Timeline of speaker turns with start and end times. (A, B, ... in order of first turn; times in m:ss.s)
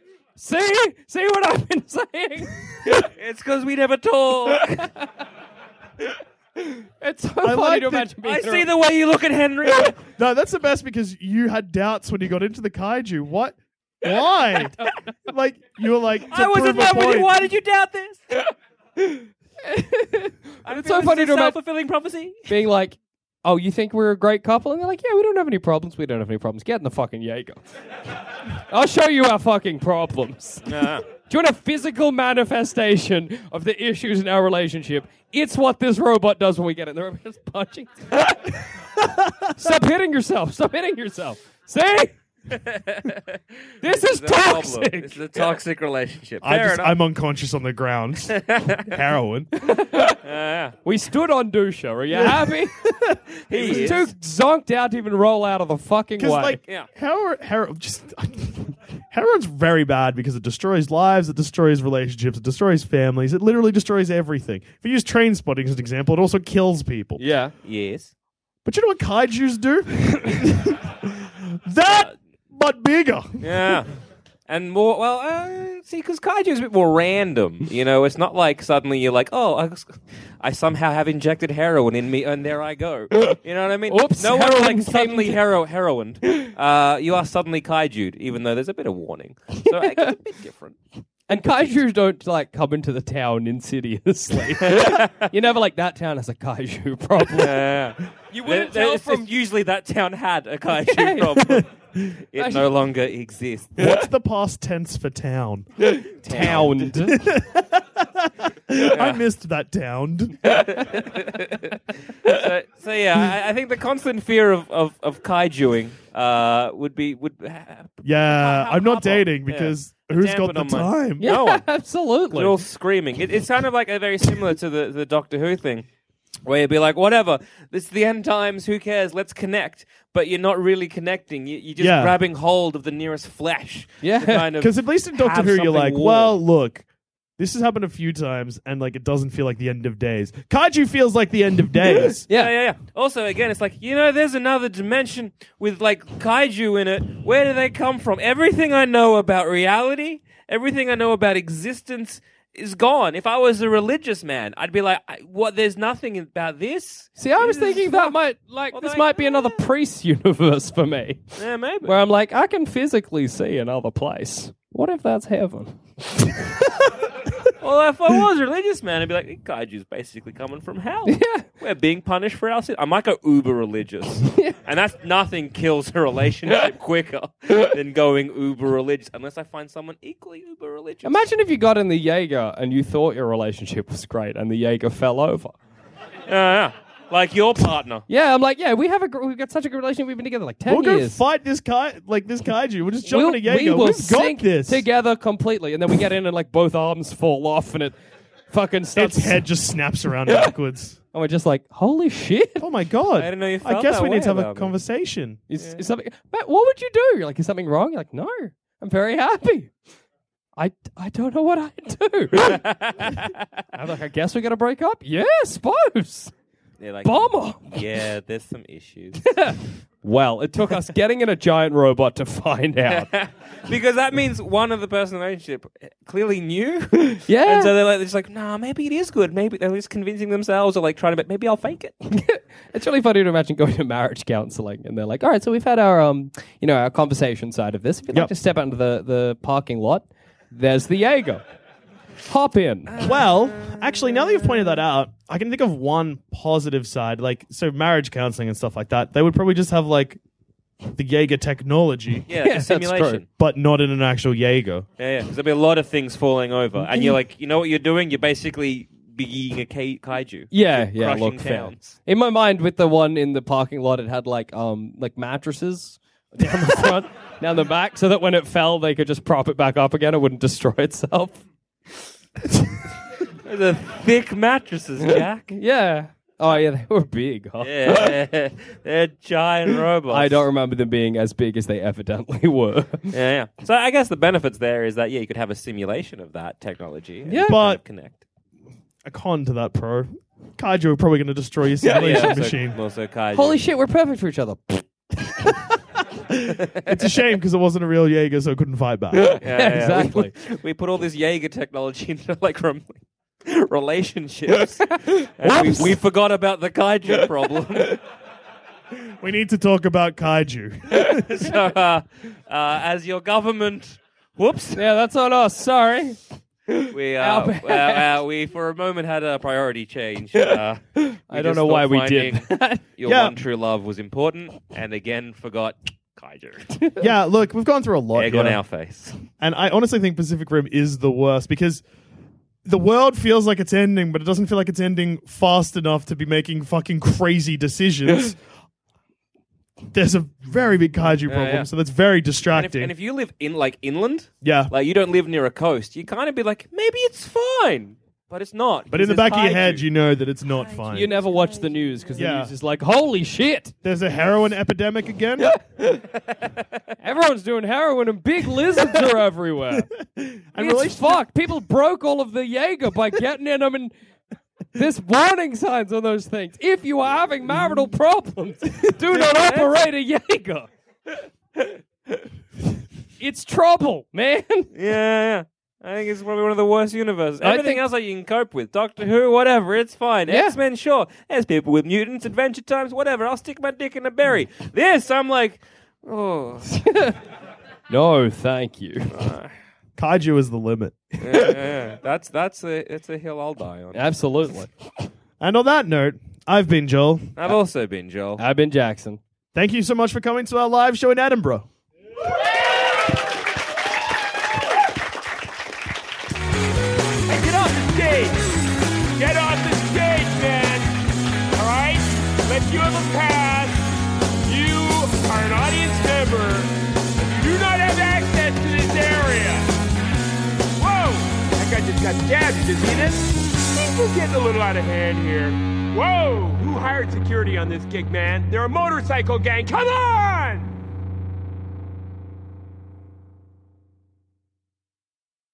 0:00.4-0:03.0 A
0:02.9-0:04.9 B
0:04.6-0:05.1 A
0:06.6-0:08.7 A
0:07.4-0:08.1 C
0:08.2-0:10.0 B
0:10.0-0:17.3 C
0:16.3-0:18.3 B
0:19.0-0:21.6 A
0:20.6-0:22.6 B
0:22.5-0:27.6 A
0:28.7-0:38.6 A
0:30.7-0:31.0 B
0:39.0-0:39.4 C
0:39.5-0:42.2 A
0:42.5-0:47.0 B
0:43.8-0:45.2 A
0:46.4-0:49.5 C
0:48.3-0:48.9 B
0:49.6-0:50.2 A
0:50.2-0:50.8 B
0:50.8-0:52.8 A
0:52.1-0:53.9 C
0:53.5-0:54.1 B
0:53.5-0:56.6 A
0:56.2-1:07.2 C
1:07.2-1:07.5 A
1:07.6-1:08.1 B
1:08.6-1:13.8 C
1:13.4-1:13.9 B
1:14.5-1:30.8 B
1:23.9-1:25.4 A
1:29.6-1:30.1 A
1:31.3-1:37.6 A
1:31.3-1:31.8 B
1:34.6-1:35.3 B
1:37.3-1:44.0 B
1:38.3-1:39.3 A
1:40.7-1:41.6 A
1:42.4-1:42.6 A
1:43.8-1:50.5 C
1:45.8-1:47.2 A
1:46.4-1:46.6 B
1:48.8-1:49.2 B
1:50.4-2:01.6 B
1:58.0-2:01.3 C
2:01.2-2:02.6 A
2:02.3-2:05.9 B
2:06.4-2:16.4 B
2:11.8-2:12.2 C
2:14.0-2:14.5 A
2:14.6-2:16.9 C
2:17.4-2:22.2 C
2:22.0-2:38.2 B
2:37.2-2:46.4 A
2:38.7-2:39.7 B
2:41.4-2:42.0 B
2:47.6-3:01.2 B
2:51.1-2:51.5 A
3:01.0-3:05.6 A
3:06.3-3:08.0 B
3:08.1-3:11.2 A
3:10.7-3:14.9 C
3:13.1-3:18.0 A
3:18.5-3:19.4 A
3:19.0-3:21.0 C
3:21.1-3:22.7 A
3:22.6-3:25.4 C
3:23.2-3:24.7 B
3:25.5-3:29.7 A
3:30.6-3:32.6 A
3:32.4-3:33.3 B
3:33.7-3:36.3 A
3:36.8-3:39.4 B
3:37.0-3:37.8 A
3:39.2-3:43.1 A
3:42.9-3:52.0 B
3:47.2-3:47.7 A
3:52.1-4:01.4 A
4:02.2-4:02.9 A
4:02.9-4:03.8 B
4:03.0-4:10.2 C
4:10.9-4:12.2 C
4:12.3-4:13.3 B
4:12.4-4:13.2 A
4:13.4-4:14.9 C
4:15.0-4:22.0 B
4:20.5-4:31.4 A
4:33.4-4:35.6 B
4:35.5-4:38.1 A
4:37.6-4:40.5 B
4:40.1-4:43.1 A
4:43.1-4:48.2 B
4:47.3-4:47.6 A
4:47.5-4:47.8 C
4:49.0-4:52.8 C
4:51.9-4:53.6 B
4:53.3-4:55.3 A
4:56.3-4:59.3 C
4:59.1-5:00.3 A
4:59.4-5:08.0 B
5:04.8-5:06.0 A
5:09.1-5:11.4 C
5:10.9-5:14.8 B
5:14.8-5:18.1 A
5:16.9-5:26.7 B
5:21.0-5:22.8 A
5:23.0-5:23.4 C
5:27.0-5:28.6 C
5:28.2-5:29.2 B
5:29.4-5:31.8 C
5:32.6-5:38.4 C
5:39.9-5:42.9 C
5:41.3-5:41.7 B
5:42.5-5:49.8 B
5:44.4-5:44.7 C
5:48.9-5:51.1 C
5:50.9-5:53.7 A
5:52.2-5:52.5 C
5:53.8-5:55.5 C
5:55.4-5:56.0 A
5:57.0-5:59.9 A
5:59.7-6:01.2 C
6:00.6-6:03.9 A
6:04.8-6:10.7 A
6:09.2-6:09.7 B
6:13.2-6:14.7 A
6:14.7-6:26.7 B
6:17.4-6:17.8 A
6:20.3-6:20.6 A
6:26.7-6:27.2 A
6:27.9-6:29.1 A
6:29.1-6:29.5 B
6:30.0-6:31.0 C
6:31.2-6:34.1 B
6:33.9-6:34.7 A
6:35.4-6:37.4 C
6:37.4-6:38.4 B
6:38.4-6:39.2 A
6:39.6-6:41.7 C
6:47.3-6:48.5 D
6:49.2-6:50.9 D
6:51.5-6:53.8 D
6:54.4-6:59.7 D
7:00.8-7:10.7 D